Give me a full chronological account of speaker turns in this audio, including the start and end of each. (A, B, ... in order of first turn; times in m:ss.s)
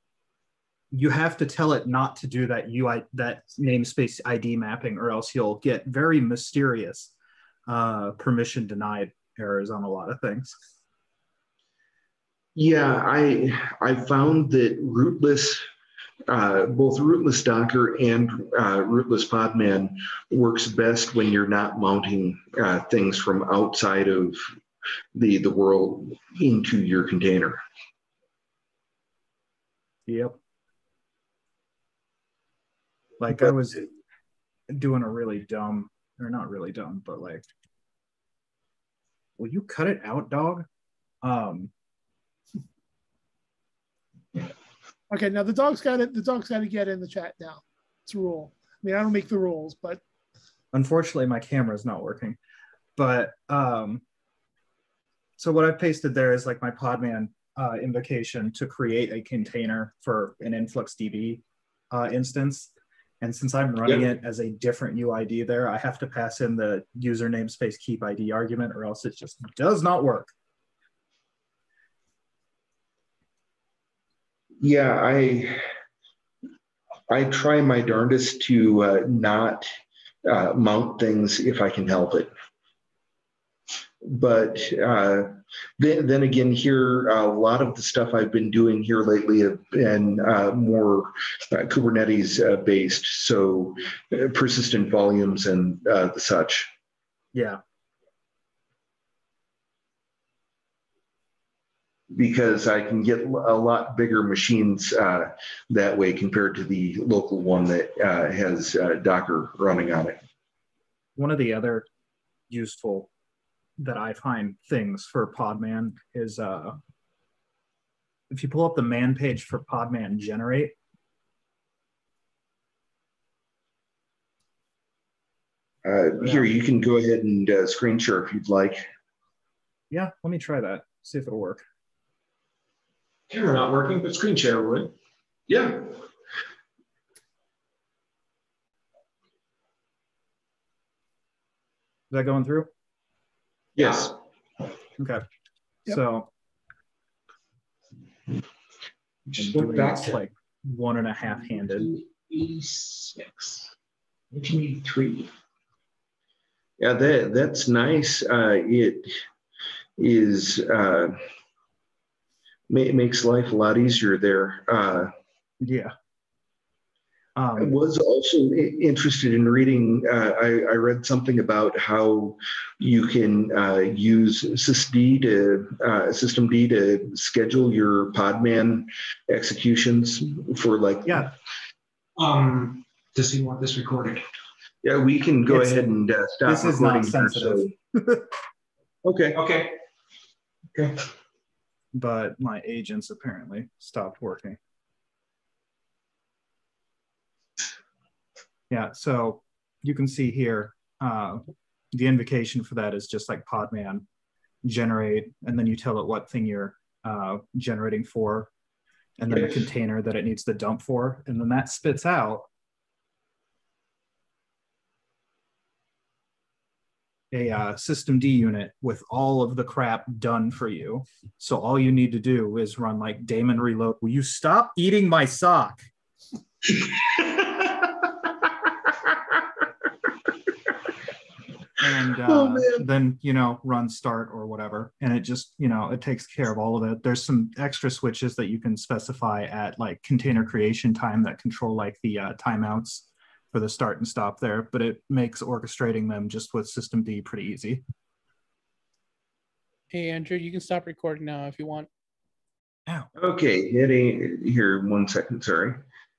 0:00.9-0:07.1 A
0:07.7-0:10.6 A
0:12.6-0:15.6 B
0:16.3-0:24.4 B
0:25.1-0:27.6 B
0:30.1-0:30.4 A
0:33.2-0:33.9 A
0:34.7-0:37.4 A
0:39.4-0:40.6 A
0:41.2-0:41.7 A
0:45.1-0:50.0 C
0:50.7-0:52.4 A
0:53.0-0:54.0 A
0:55.4-1:10.3 A
1:14.6-1:15.6 B
1:17.1-1:19.6 B
1:20.2-1:22.3 B
1:24.0-1:36.7 B
1:37.3-1:37.6 A
1:42.1-1:50.2 B
1:51.2-1:51.9 A
1:52.5-1:53.1 A
1:53.8-1:56.8 A
1:58.3-2:00.8 A
2:05.8-2:08.8 B
2:06.2-2:06.5 A
2:09.9-2:11.6 A
2:13.3-2:14.9 D
2:22.1-2:22.7 A
2:23.8-2:24.1 D
2:25.0-2:25.2 A
2:25.9-2:26.3 A
2:29.4-2:31.9 A
2:29.5-2:30.0 B
2:31.7-2:33.4 B
2:34.3-2:35.3 B
2:36.8-2:39.1 B
2:40.0-2:41.1 B
2:42.7-2:45.1 B
2:45.6-2:45.9 A
2:47.4-2:47.7 A
2:47.6-3:01.3 B
3:02.2-3:04.2 D
3:04.8-3:07.7 B
3:05.5-3:05.8 A
3:06.4-3:08.3 A
3:09.0-3:09.4 B
3:09.3-3:09.7 D
3:10.7-3:11.0 D
3:11.9-3:14.6 A
3:18.7-3:24.0 A
3:24.6-3:28.5 A
3:29.2-3:32.5 A
3:37.3-3:45.9 A
3:51.8-4:07.8 A
4:09.9-4:11.9 E
4:13.2-4:15.8 B